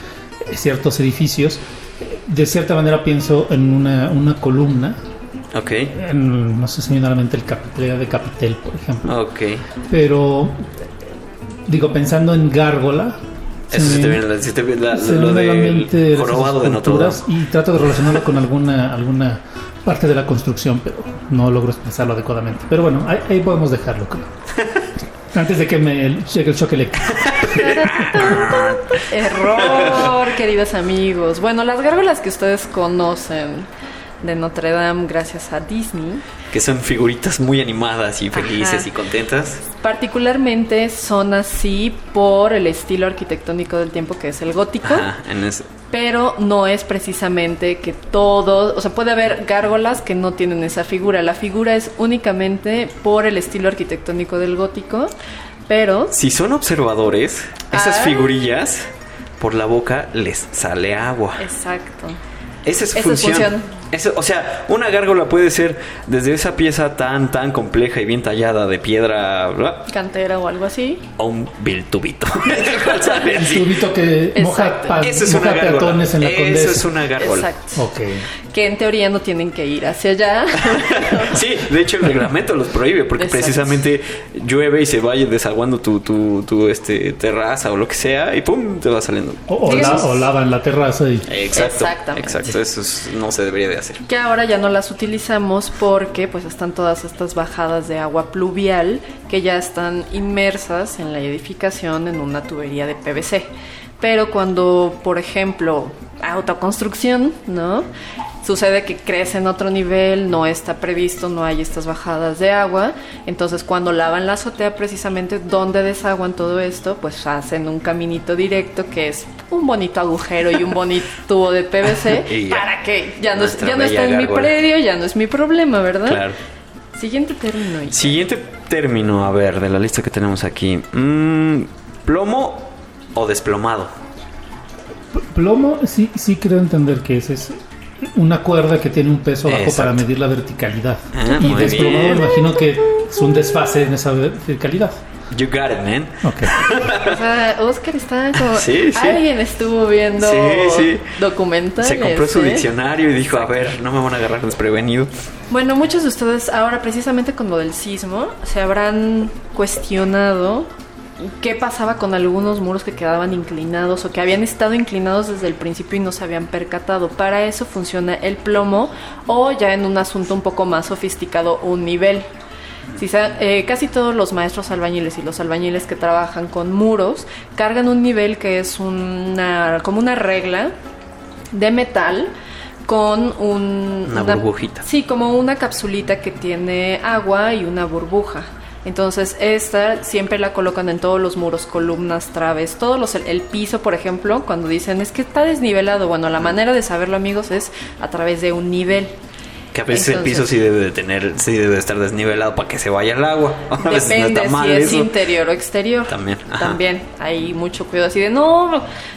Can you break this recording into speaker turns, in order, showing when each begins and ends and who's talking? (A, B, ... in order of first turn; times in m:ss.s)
0:00.4-0:05.0 A
0:05.5-0:05.9 B
0:05.9-0:09.1 A
0:09.0-0:09.6 B
0:09.9-0:10.8 A
0:11.6-0:14.2 A
0:13.7-0:17.2 B
0:14.9-0:24.3 A
0:25.3-0:27.5 A
0:27.1-0:30.2 B
0:27.5-0:33.7 C
0:34.2-0:36.2 C
0:36.5-0:39.6 B
0:38.3-0:38.9 C
0:39.8-0:45.1 C
0:44.8-0:45.7 B
0:45.9-0:55.1 C
0:55.7-0:56.1 C
0:56.1-0:58.9 B
0:57.7-0:58.3 C
0:59.4-1:01.4 B
1:01.4-1:02.2 C
1:02.6-1:09.9 B
1:02.9-1:03.7 C
1:09.9-1:11.0 C
1:11.2-1:13.8 B
1:12.8-1:13.2 C
1:13.2-1:16.9 A
1:14.3-1:15.0 C
1:15.0-1:17.5 B
1:17.2-1:17.8 C
1:17.7-1:18.3 A
1:18.5-1:21.4 C
1:20.7-1:30.0 B
1:23.2-1:23.8 C
1:29.5-1:31.3 A
1:29.6-1:30.3 C
1:31.3-1:34.0 B
1:31.5-1:32.5 C
1:34.0-1:43.5 C
1:44.0-1:47.9 C
1:48.4-2:06.2 C
2:02.0-2:02.7 B
2:03.3-2:04.6 B
2:06.0-2:06.4 B
2:06.9-2:08.1 C
2:07.9-2:13.9 B
2:15.1-2:25.0 A
2:19.5-2:20.0 B
2:21.1-2:22.3 B
2:25.3-2:27.2 B
2:26.2-2:26.6 A
2:27.0-2:32.7 C
2:28.4-2:29.2 B
2:30.2-2:31.1 B
2:31.8-2:35.1 B
2:35.5-2:52.3 C
2:53.0-3:00.7 C
3:01.5-3:02.3 C
3:02.8-3:19.2 C
3:04.1-3:04.8 B
3:19.7-3:25.1 B
3:19.9-3:20.5 C
3:23.8-3:28.8 C
3:26.1-3:26.8 B